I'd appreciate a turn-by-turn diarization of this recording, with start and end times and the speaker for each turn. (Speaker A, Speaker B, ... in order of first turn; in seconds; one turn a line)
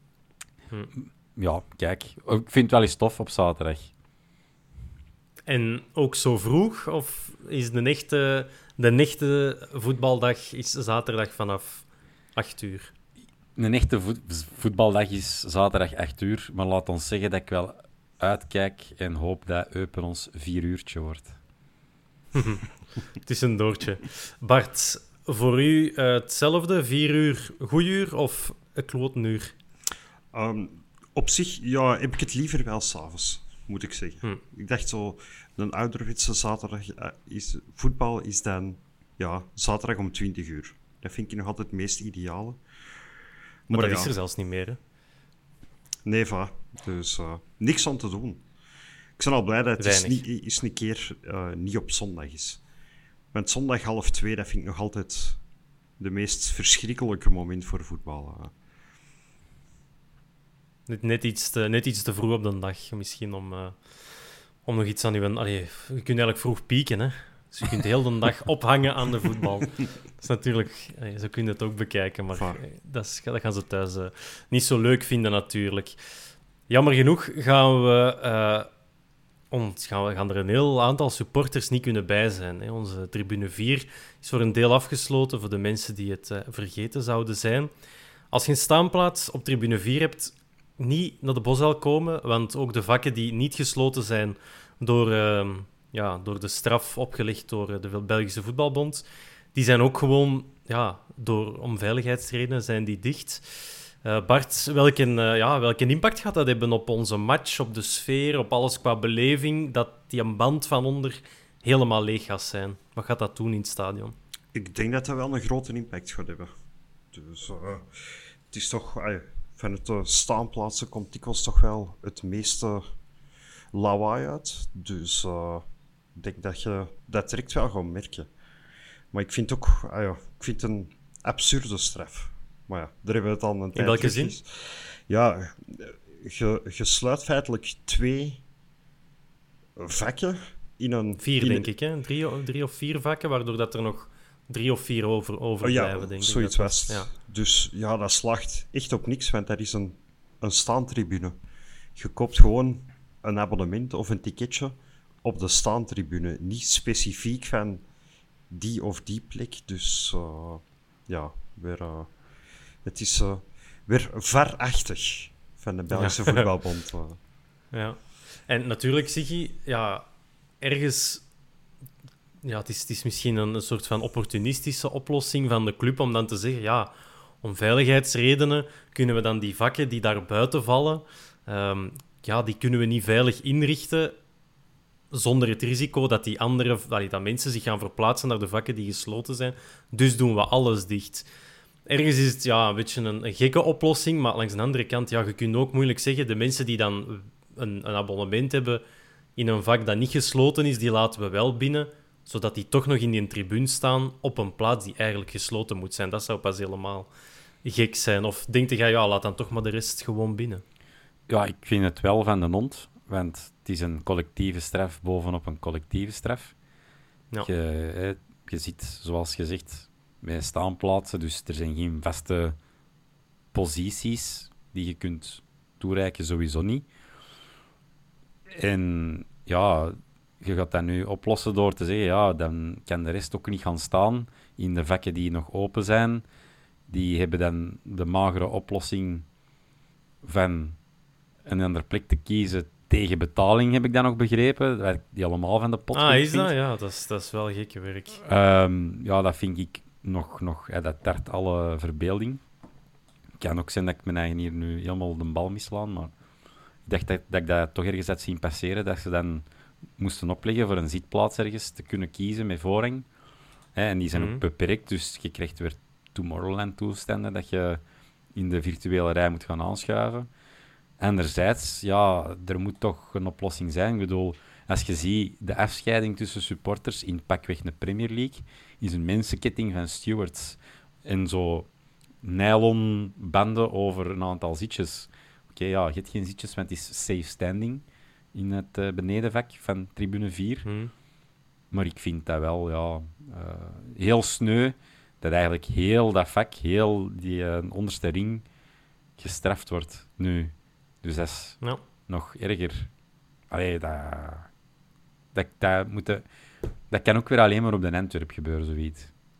Speaker A: 0.9-3.9
Speaker B: 5.5-12.9
Speaker A: 13.6-21.3
Speaker B: 22.3-22.6
Speaker B: 23.2-29.5
Speaker C: 30.3-42.6
Speaker C: 43.7-44.1
Speaker B: 43.7-44.8
Speaker C: 46.0-48.4
Speaker C: 49.2-52.6
Speaker B: 49.8-50.2
Speaker C: 53.3-55.4
Speaker C: 56.0-58.5
Speaker B: 60.9-63.8
Speaker B: 64.6-76.0
Speaker C: 72.3-72.6
Speaker B: 76.7-78.7
Speaker B: 79.5-87.7
Speaker B: 88.3-114.1
Speaker C: 114.5-116.5
Speaker C: 117.1-117.9
Speaker C: 118.5-122.8
Speaker C: 123.7-128.3
Speaker C: 129.1-138.4
Speaker B: 133.7-134.3
Speaker C: 139.8-141.7
Speaker B: 141.2-147.1
Speaker C: 145.6-151.4
Speaker C: 151.9-157.8
Speaker C: 158.5-162.2
Speaker C: 162.8-167.2
Speaker B: 165.9-166.4
Speaker B: 167.7-170.1
Speaker B: 170.6-171.2
Speaker B: 172.4-184.2
Speaker B: 185.1-191.2
Speaker B: 191.8-198.8
Speaker B: 199.3-207.1
Speaker B: 207.6-210.6
Speaker A: 211.3-216.5
Speaker A: 217.4-222.6
Speaker A: 223.5-226.8
Speaker A: 228.5-236.2
Speaker A: 236.9-239.2
Speaker A: 240.2-240.8
Speaker A: 241.4-246.5
Speaker B: 245.9-248.2
Speaker A: 248.2-252.4
Speaker A: 253.4-256.1
Speaker A: 256.8-259.4
Speaker A: 260.0-263.1
Speaker A: 263.7-267.8
Speaker B: 264.1-264.4
Speaker A: 268.3-270.3
Speaker A: 271.0-281.7
Speaker A: 282.2-290.7
Speaker B: 290.6-290.9
Speaker A: 291.7-298.4
Speaker A: 299.2-302.9
Speaker A: 303.5-304.5
Speaker A: 305.3-306.2
Speaker A: 306.9-309.1